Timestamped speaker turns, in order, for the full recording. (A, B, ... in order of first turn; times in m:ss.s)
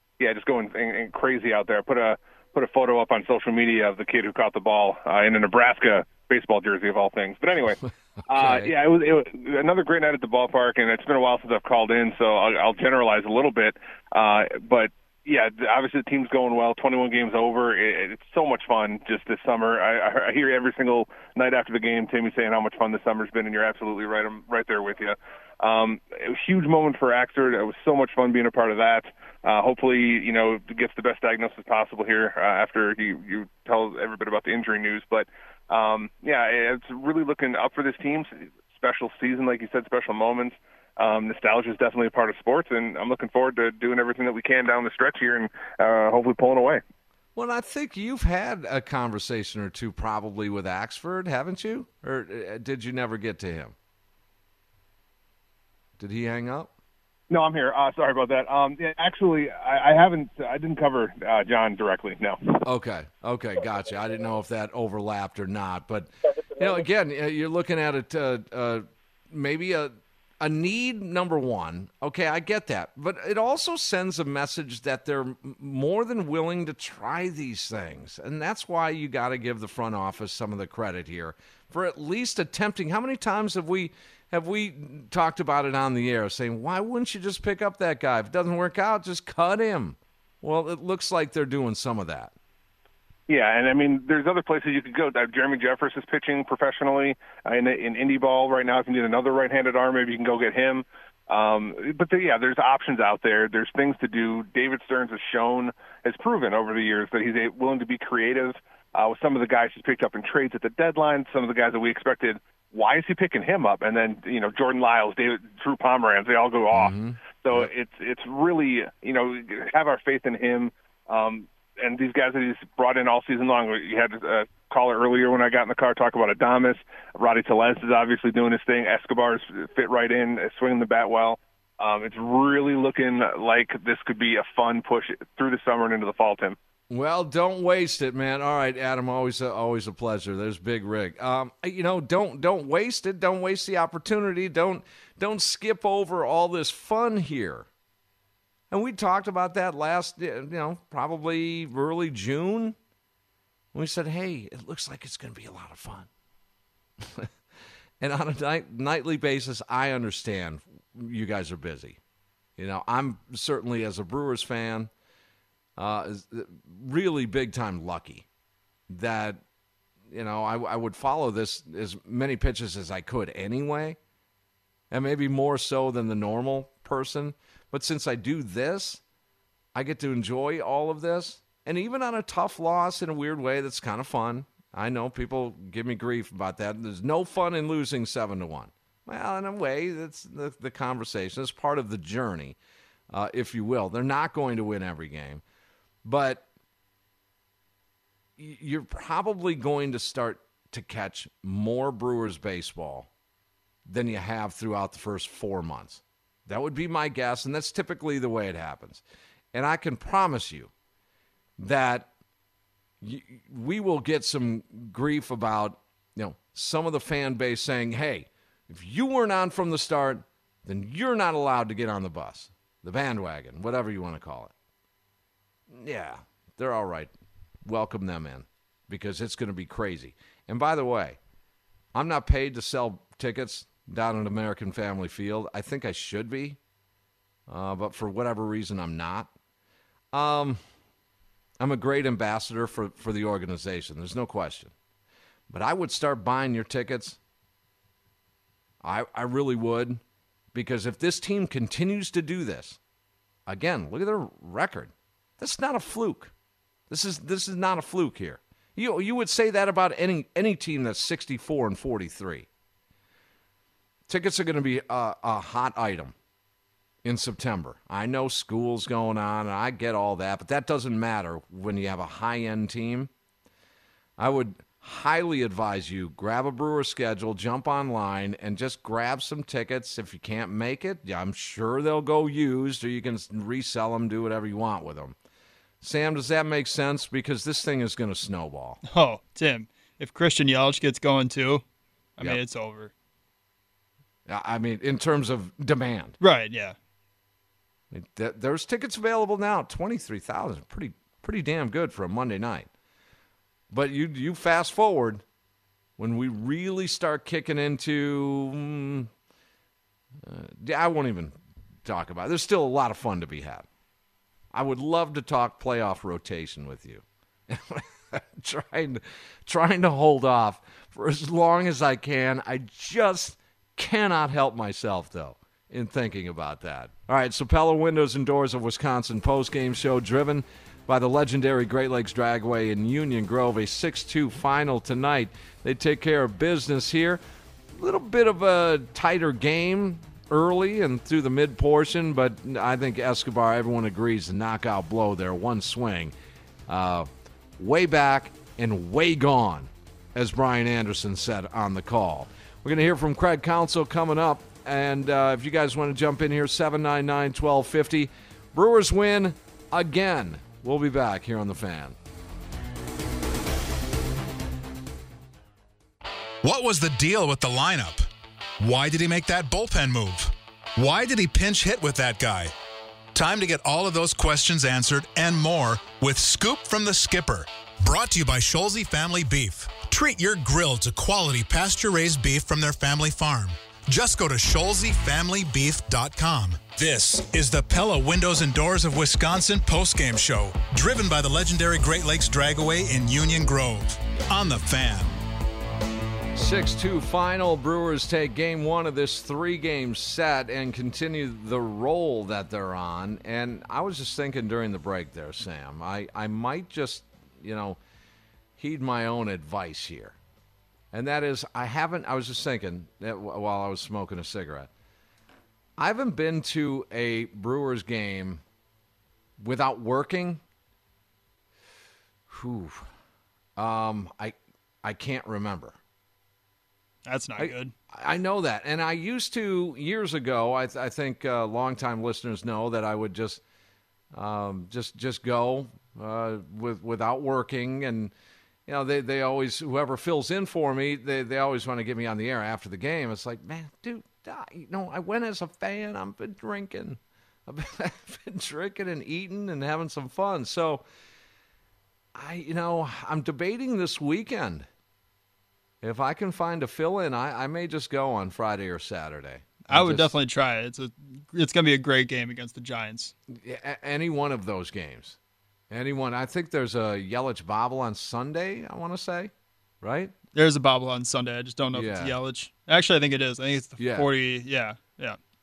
0:00.2-0:46.8 A
0:08.3-0:08.7 B
0:47.4-0:53.7 B
0:56.0-0:56.7 B
0:57.3-1:02.6 A
1:02.6-1:32.3 B
1:33.3-2:16.6 A
1:56.7-1:57.7 B
2:16.9-2:27.7 B
2:28.7-2:32.8 B
2:33.7-2:36.1 B
2:37.0-2:37.3 B
2:38.0-2:42.0 B
2:42.6-2:44.9 B
2:45.8-2:48.3 B
2:48.9-2:49.4 B
2:50.1-2:54.0 B
2:54.9-2:59.0 B
2:59.7-3:12.6 B
3:13.1-3:15.4 B
3:16.0-3:16.4 B
3:18.4-3:23.1 B
3:23.9-3:30.7 B
3:31.6-3:32.1 B
3:33.0-3:44.5 B
3:45.7-3:47.1 B
3:47.6-3:51.2 B
3:51.9-3:56.6 B
3:57.5-3:59.3 B
4:00.1-4:00.6 B
4:01.6-4:04.7 B
4:05.5-4:07.2 B
4:08.8-4:10.0 B
4:10.5-4:12.8 B
4:13.5-4:16.3 B
4:16.9-4:22.5 B
4:24.1-4:26.1 B
4:27.0-4:33.1 B
4:34.2-4:45.2 B
4:45.8-4:48.8 B
4:48.9-4:51.6 C
4:52.2-4:52.9 C
4:54.3-4:56.2 B
4:56.2-4:56.7 C
4:57.9-5:02.7 B
5:03.7-5:05.2 B
5:06.0-5:09.1 B
5:10.2-5:13.7 B
5:14.5-5:37.2 B
5:37.7-5:46.1 B
5:46.7-6:02.0 B
6:06.4-6:08.1 D
6:08.6-6:12.5 D
6:13.1-6:35.2 D
6:36.4-6:47.8 B
6:48.6-6:50.2 B
6:50.9-6:54.7 B
6:55.8-6:58.4 B
6:59.4-7:00.4 B
7:02.3-7:02.9 B
7:03.6-7:05.8 B
7:07.1-7:07.7 C
7:07.4-7:13.4 B
7:14.1-7:18.1 B
7:18.7-7:30.8 B
7:32.1-7:34.7 B
7:35.8-7:40.1 B
7:39.7-7:43.1 C
7:43.3-7:45.2 B
7:45.7-7:50.1 B
7:50.4-7:55.2 C
7:51.7-7:52.1 B
7:53.8-7:54.1 B